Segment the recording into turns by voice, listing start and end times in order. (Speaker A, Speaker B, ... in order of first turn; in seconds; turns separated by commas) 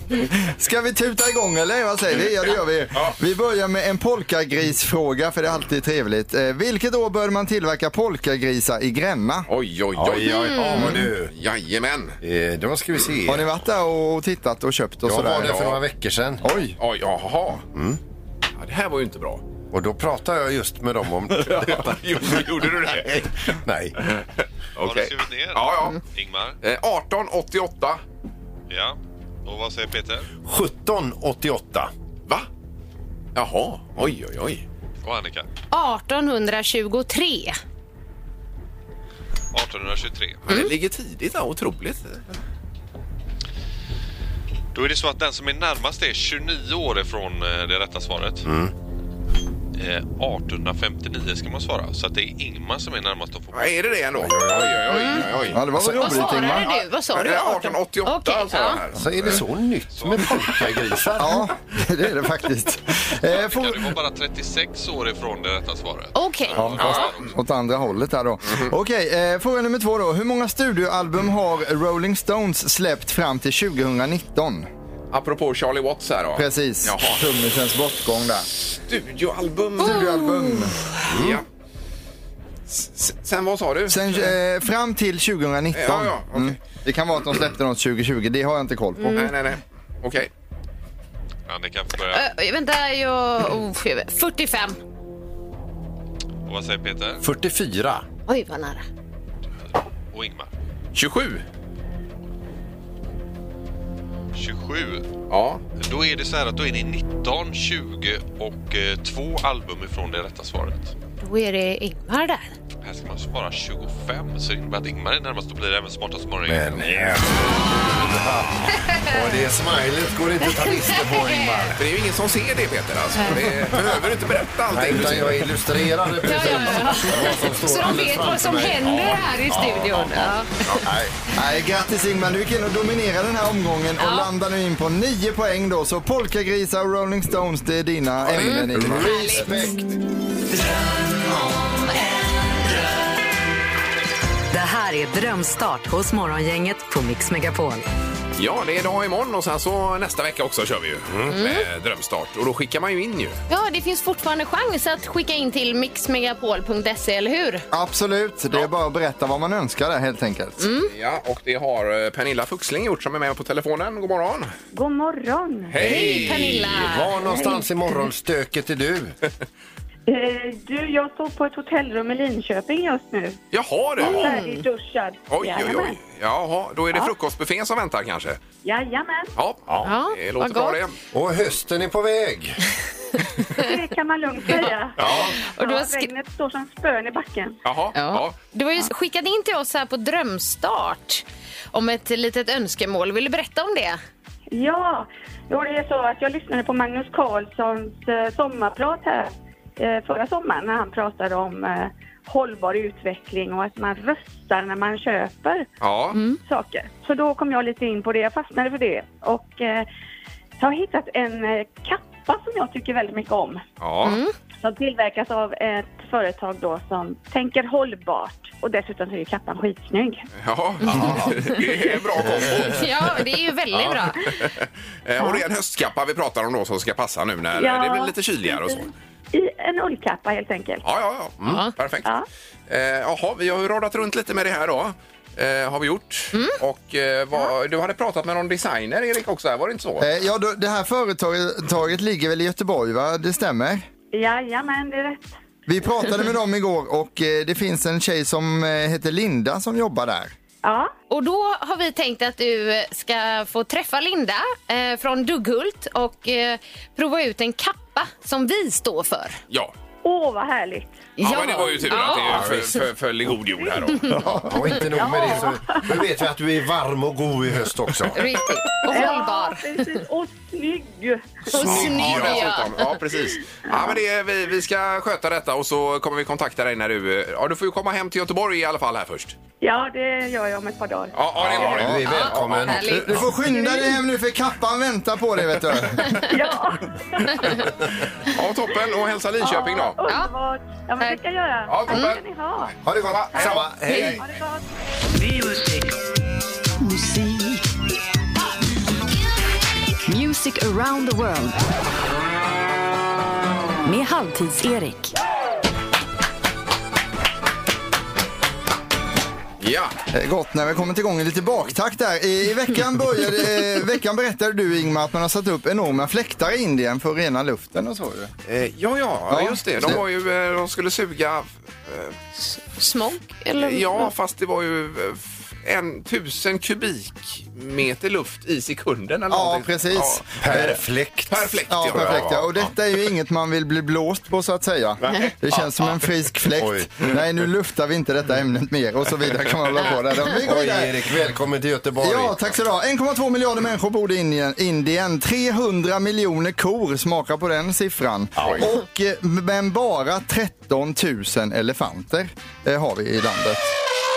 Speaker A: 0.5-9.5, Speaker B: 2.5-3.2, Speaker B: 9.5-12.2, Speaker C: 9.9-11.3, Speaker D: 10.2-11.0, Speaker C: 12.2-13.5, Speaker A: 13.3-15.7, Speaker C: 15.1-16.5, Speaker B: 15.4-15.8, Speaker A: 16.4-16.8, Speaker B: 16.8-17.6, Speaker C: 17.7-18.0, Speaker B: 18.6-19.4, Speaker C: 19.7-24.0, Speaker B: 21.4-26.0, Speaker E: 24.8-26.6, Speaker B: 26.6-28.0, Speaker E: 28.7-30.3, Speaker C: 30.4-31.9, Speaker B: 33.4-34.6, Speaker E: 35.0-35.5, Speaker D: 35.7-37.6, Speaker E: 39.5-40.4, Speaker B: 40.5-42.4, Speaker E: 44.7-48.5, Speaker C: 48.5-48.7, Speaker E: 49.8-53.8, Speaker B: 53.5-55.6, Speaker C: 54.2-54.8, Speaker D: 54.9-55.3, Speaker A: 55.4-56.7, Speaker C: 55.8-56.2, Speaker D: 55.9-58.8, Speaker B: 56.3-59.4, Speaker C: 59.0-61.5, Speaker E: 60.0-60.3, Speaker A: 61.2-63.9, Speaker E: 63.3-67.2, Speaker D: 66.1-67.1, Speaker A: 66.6-74.7, Speaker B: 66.8-67.2, Speaker B: 68.5-68.7, Speaker B: 75.1-77.2, Speaker A: 76.3-78.5, Speaker B: 78.7-80.3, Speaker D: 79.8-80.7, Speaker A: 79.8-80.8, Speaker B: 81.0-81.5, Speaker C: 81.1-81.4, Speaker B: 82.7-84.3, Speaker A: 83.9-89.3, Speaker B: 85.7-86.6, Speaker D: 89.0-89.3, Speaker B: 89.2-90.3, Speaker E: 91.5-92.3, Speaker D: 92.1-94.8, Speaker E: 96.5-97.2, Speaker C: 97.2-98.0, Speaker D: 98.3-98.8, Speaker E: 99.7-100.5, Speaker B: 101.0-101.4, Speaker E: 104.3-105.1, Speaker B: 105.3-105.6, Speaker E: 105.8-110.9, Speaker D: 111.2-112.5, Speaker E: 112.8-117.2, Speaker C: 116.5-121.8, Speaker B: 116.8-117.2, Speaker D: 120.4-121.8, Speaker B: 121.8-125.5, Speaker D: 123.2-123.5, Speaker C: 123.7-124.0, Speaker C: 124.7-131.1, Speaker D: 126.2-130.5, Speaker A: 131.3-139.7, Speaker D: 134.0-134.3, Speaker B: 138.2-138.8, Speaker D: 138.3-139.7, Speaker C: 138.8-139.9, Speaker F: 144.5-147.8, Speaker B: 148.4-153.4, Speaker C: 151.1-151.4, Speaker D: 151.3-151.7, Speaker D: 153.5-157.7, Speaker A: 157.7-160.7, Speaker D: 160.6-160.9, Speaker B: 160.9-164.5, Speaker G: 164.7-166.0, Speaker B: 165.7-166.9, Speaker D: 165.8-167.6, Speaker C: 166.0-169.2, Speaker G: 167.3-167.6, Speaker G: 170.1-173.4, Speaker B: 173.5-174.4, Speaker G: 174.0-176.0, Speaker D: 174.0-174.6, Speaker B: 175.3-178.4, Speaker G: 178.6-179.3, Speaker B: 179.4-180.9, Speaker D: 179.8-180.8, Speaker C: 181.1-182.6, Speaker D: 183.4-183.7, Speaker G: 183.6-187.6, Speaker C: 185.0-185.3, Speaker D: 185.0-186.1, Speaker B: 187.7-188.4, Speaker D: 187.9-194.0, Speaker G: 194.5-205.7, Speaker B: 205.8-206.2, Speaker D: 206.1-206.4, Speaker G: 206.4-209.9, Speaker G: 210.6-213.6, Speaker B: 213.8-214.2, Speaker D: 214.0-214.3, Speaker G: 214.6-220.3, Speaker B: 220.4-223.2, Speaker C: 220.9-221.4, Speaker D: 221.1-221.8, Speaker C: 222.2-222.8, Speaker D: 222.5-224.3, Speaker C: 223.7-224.0, Speaker B: 224.2-228.9, Speaker G: 227.6-230.8, Speaker B: 230.8-232.1, Speaker D: 231.5-231.7, Speaker B: 232.7-240.1, Speaker A: 240.0-243.9, Speaker G: 244.1-245.3, Speaker A: 245.7-250.3, Speaker G: 250.6-250.9, Speaker D: 251.1-259.4, Speaker G: 260.0-261.1, Speaker D: 261.2-262.6, Speaker B: 261.2-264.2, Speaker C: 262.1-262.8, Speaker D: 263.9-264.7, Speaker C: 264.4-268.2, Speaker G: 264.9-266.0, Speaker D: 268.1-270.0, Speaker G: 268.9-271.8, Speaker D: 271.5-272.8, Speaker B: 271.6-279.4, Speaker G: 273.7-274.0, Speaker G: 279.6-281.2, Speaker B: 281.1-282.7, Speaker C: 281.4-282.9, Speaker A: 281.8-286.2, Speaker D: 282.0-283.3, Speaker G: 283.5-283.9, Speaker G: 286.3-287.8, Speaker B: 288.2-290.0, Speaker G: 289.4-292.8, Speaker D: 290.1-290.3, Speaker B: 291.7-292.2, Speaker D: 291.9-292.1, Speaker C: 292.9-294.2, Speaker B: 292.9-294.2, Speaker G: 293.3-294.6, Speaker F: 296.8-297.5, Speaker F: 300.1-301.6, Speaker F: 303.9-305.1, Speaker B: 309.6-309.9, Speaker A: 310.1-318.3, Speaker B: 318.5-322.1, Speaker A: 319.3-320.0, Speaker D: 322.4-324.1, Speaker B: 323.6-332.7, Speaker A: 329.3-330.8, Speaker C: 330.4-332.5, Speaker A: 331.7-341.0, Speaker B: 335.1-336.1, Speaker C: 336.6-337.0, Speaker B: 339.2-340.0, Speaker C: 340.4-342.5, Speaker A: 342.0-353.7, Speaker C: 348.4-348.7